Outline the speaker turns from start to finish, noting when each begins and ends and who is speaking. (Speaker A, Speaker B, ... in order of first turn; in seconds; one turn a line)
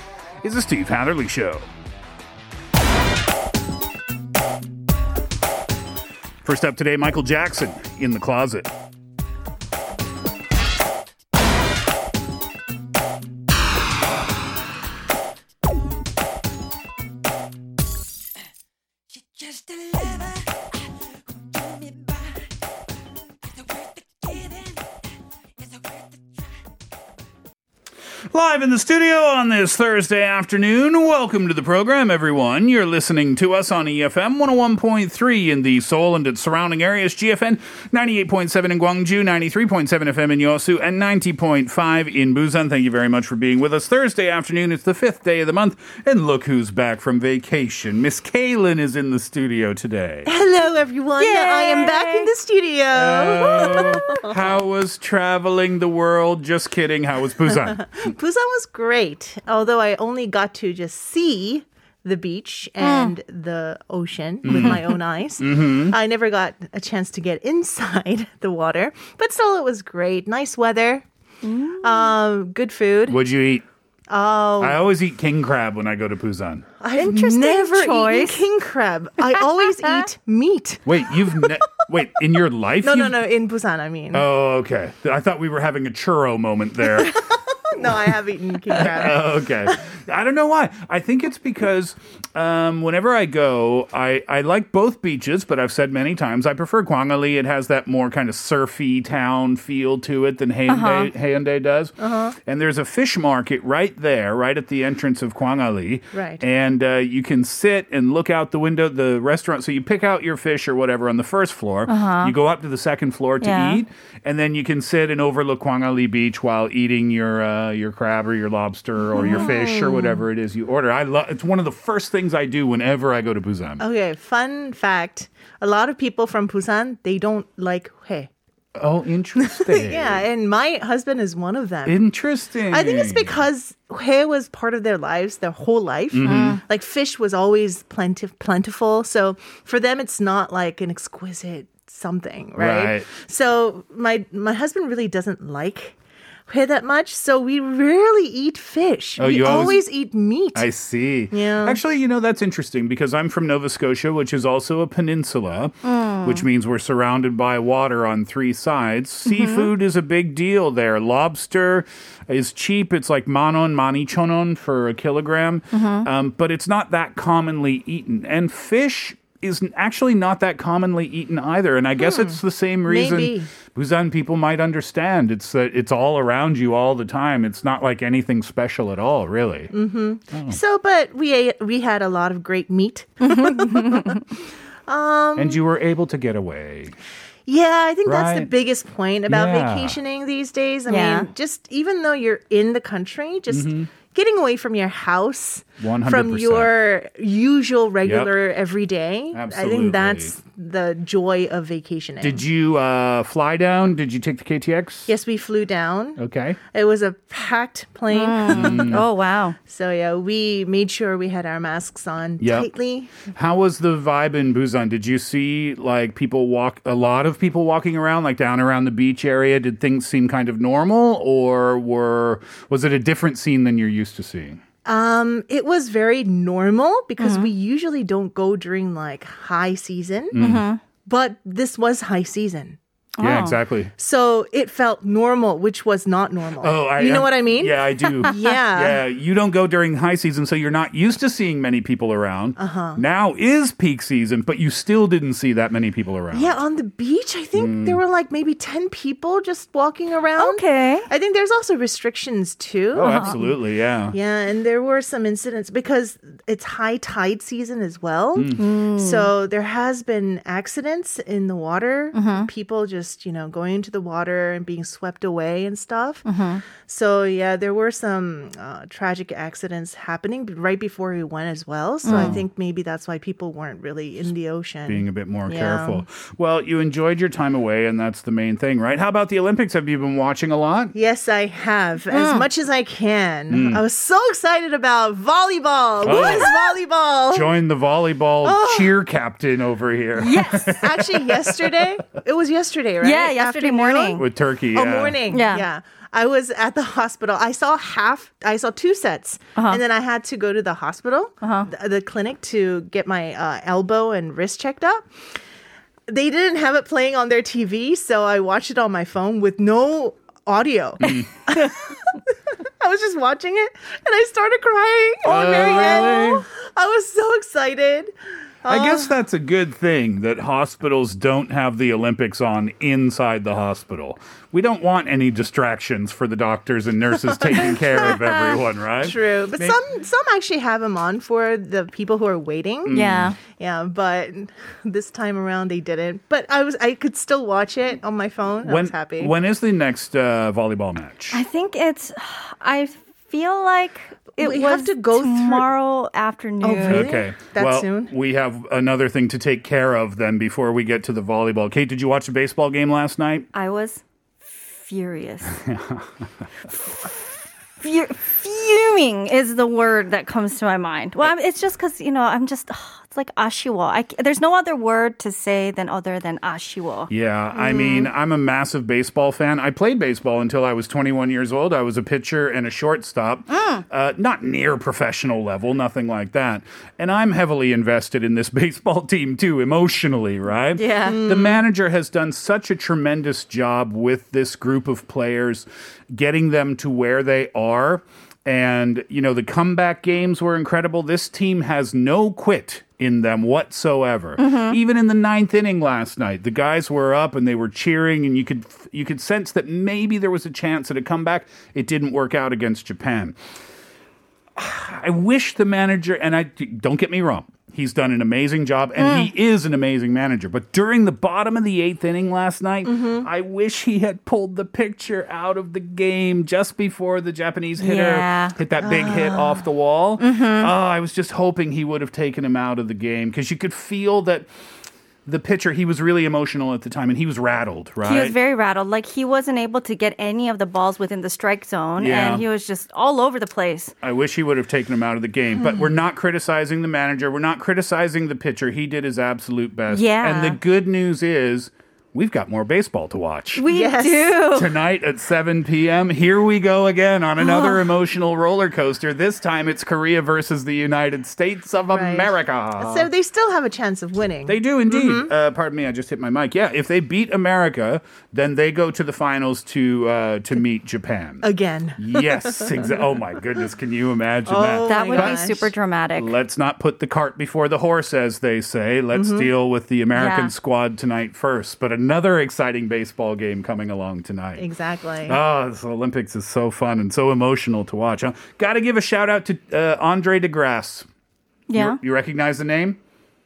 Speaker A: 0.4-1.6
Speaker A: 6.4-8.7
Speaker B: 19.9-20.3
Speaker A: 28.3-50.3
Speaker C: 50.2-54.3
Speaker B: 51.2-52.3
Speaker A: 52.9-57.9
Speaker B: 53.4-54.2
Speaker C: 57.6-71.0
Speaker B: 62.8-63.1
Speaker A: 64.4-64.8
Speaker B: 64.5-64.8
Speaker A: 65.4-66.0
Speaker B: 71.4-72.1
Speaker C: 71.8-73.2
Speaker A: 73.1-73.6
Speaker C: 74.1-74.8
Speaker A: 74.6-76.7
Speaker C: 76.8-81.5
Speaker B: 77.0-78.4
Speaker A: 80.8-83.2
Speaker C: 82.8-84.2
Speaker A: 84.1-87.2
Speaker C: 87.6-89.8
Speaker A: 87.8-88.1
Speaker A: 88.7-123.8
Speaker B: 100.7-101.1
Speaker C: 102.0-102.3
Speaker C: 106.1-106.4
Speaker B: 111.9-112.3
Speaker B: 113.4-113.8
Speaker C: 119.2-120.2
Speaker C: 123.8-128.3
Speaker A: 128.8-130.2
Speaker C: 129.4-132.0
Speaker A: 131.8-133.4
Speaker C: 132.7-146.0
Speaker A: 136.1-136.6
Speaker B: 136.2-136.6
Speaker A: 142.6-143.1
Speaker C: 146.5-150.7
Speaker A: 149.2-149.8
Speaker A: 150.5-179.7
Speaker C: 151.3-151.8
Speaker B: 155.8-156.4
Speaker B: 159.2-159.7
Speaker B: 165.7-166.1
Speaker C: 172.0-173.5
Speaker C: 179.7-185.6
Speaker A: 180.3-180.6
Speaker B: 183.2-184.2
Speaker A: 185.3-186.9
Speaker C: 187.4-202.4
Speaker A: 188.1-188.5
Speaker A: 189.3-190.0
Speaker B: 190.9-191.3
Speaker A: 193.5-193.9
Speaker A: 195.8-196.7
Speaker A: 198.0-198.3
Speaker A: 199.3-200.3
Speaker A: 202.2-205.1
Speaker C: 205.1-206.2
Speaker A: 206.2-206.6
Speaker C: 206.7-209.0
Speaker B: 208.1-209.6
Speaker A: 208.5-209.1
Speaker C: 209.7-213.1
Speaker A: 212.4-212.7
Speaker A: 213.2-224.6
Speaker C: 224.8-230.3
Speaker B: 227.2-227.5
Speaker A: 230.3-230.7
Speaker B: 230.3-230.8
Speaker C: 231.0-232.8
Speaker B: 233.2-233.5
Speaker A: 233.2-233.9
Speaker C: 234.0-239.0
Speaker A: 236.6-246.6
Speaker C: 242.6-243.0
Speaker C: 246.3-253.5
Speaker A: 247.5-248.0
Speaker B: 250.4-251.1
Speaker A: 252.9-254.2
Speaker B: 253.0-253.3
Speaker C: 254.1-266.2
Speaker A: 258.3-258.6
Speaker B: 258.5-259.3
Speaker B: 262.1-262.5
Speaker B: 266.2-266.6
Speaker C: 266.8-276.0
Speaker B: 272.0-272.4
Speaker A: 272.1-272.4
Speaker A: 274.9-280.9
Speaker C: 280.9-287.5
Speaker B: 282.1-282.4
Speaker A: 283.5-283.8
Speaker A: 286.0-286.5
Speaker B: 286.1-286.5
Speaker A: 287.3-292.0
Speaker C: 288.4-288.9
Speaker B: 290.2-290.9
Speaker C: 290.6-305.1
Speaker B: 293.0-294.2
Speaker A: 294.1-295.2
Speaker B: 295.3-295.6
Speaker B: 299.6-299.8
Speaker B: 301.4-301.7
Speaker C: 306.1-312.1
Speaker A: 311.0-311.3
Speaker B: 311.0-311.7
Speaker C: 312.6-318.1
Speaker A: 315.2-316.4
Speaker C: 318.6-319.1
Speaker A: 318.7-329.8
Speaker C: 327.5-328.2
Speaker C: 329.0-339.3
Speaker A: 332.8-333.3
Speaker B: 332.9-333.4
Speaker A: 338.6-341.4
Speaker B: 341.3-347.1
Speaker C: 344.4-345.7
Speaker C: 346.6-348.1
Speaker A: 346.9-353.5
Speaker B: 353.5-355.6
Speaker A: 355.6-356.3
Speaker B: 356.7-357.1
Speaker B: 357.8-367.1
Speaker A: 367.1-403.4
Speaker C: 367.5-368.1
Speaker B: 373.5-373.8
Speaker B: 380.8-381.2
Speaker C: 381.0-381.6
Speaker B: 394.4-394.8
Speaker A: 404.6-424.5
Speaker B: 409.0-409.3
Speaker C: 412.8-413.2
Speaker B: 417.8-418.5
Speaker C: 418.8-419.5
Speaker B: 420.2-420.7
Speaker A: 425.2-428.4
Speaker B: 428.0-433.9
Speaker A: 432.0-432.4
Speaker A: 434.0-443.7
Speaker B: 439.9-440.6
Speaker B: 443.6-444.7
Speaker C: 443.6-444.4
Speaker A: 444.5-453.1
Speaker B: 447.4-447.8
Speaker C: 451.9-455.3
Speaker A: 454.5-465.5
Speaker C: 461.4-463.0
Speaker C: 464.5-465.7
Speaker B: 464.9-466.3
Speaker A: 466.1-474.7
Speaker C: 469.1-469.5
Speaker B: 470.1-470.5
Speaker C: 474.6-475.4
Speaker A: 475.2-481.1
Speaker B: 481.7-482.0
Speaker A: 481.8-483.0